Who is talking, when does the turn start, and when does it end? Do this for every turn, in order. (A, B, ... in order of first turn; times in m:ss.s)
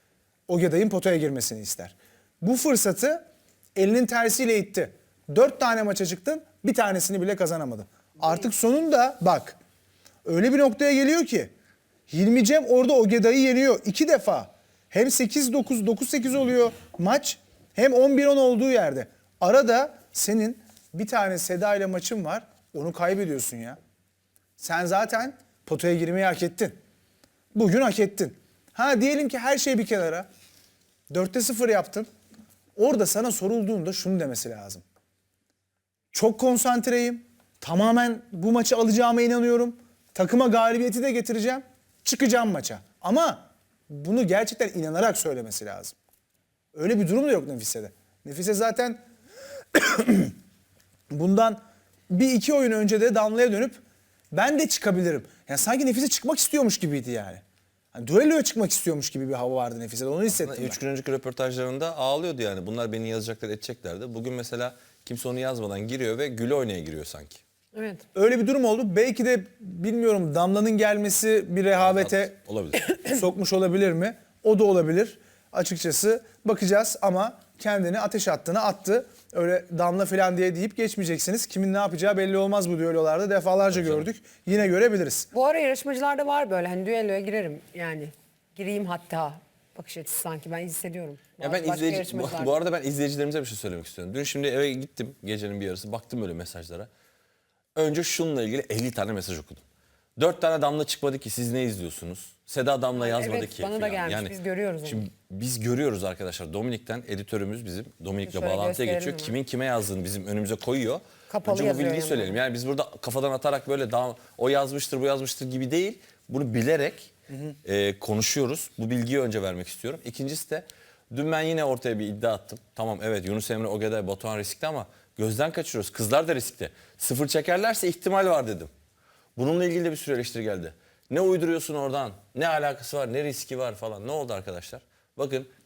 0:00.5-0:03.2 A
0:03.8-0:09.6 A
0:10.2-0:11.5 A
0:12.1-0:23.8 A
0:24.6-0:26.8 A
0:27.5-0:30.3 A
0:31.1-0:32.1 A
0:32.8-0:34.8 A
0:36.1-0:46.0 A
0:46.7-0:49.0 A
0:49.8-0:50.4 A
0:51.1-0:53.8 A
0:54.3-0:57.4 A
0:57.9-1:00.8 A
1:00.3-1:07.4 B
1:07.8-1:08.0 C
1:08.2-1:12.4 A
1:11.8-1:12.9 B
1:13.0-1:25.3 A
1:23.7-1:24.1 B
1:25.3-1:32.6 C
1:31.4-1:36.9 B
1:37.8-1:39.6 B
1:40.2-1:57.1 B
1:43.0-1:45.0 C
1:48.2-1:49.3 C
1:51.3-1:52.4 C
1:57.6-2:08.7 B
2:09.4-2:15.5 B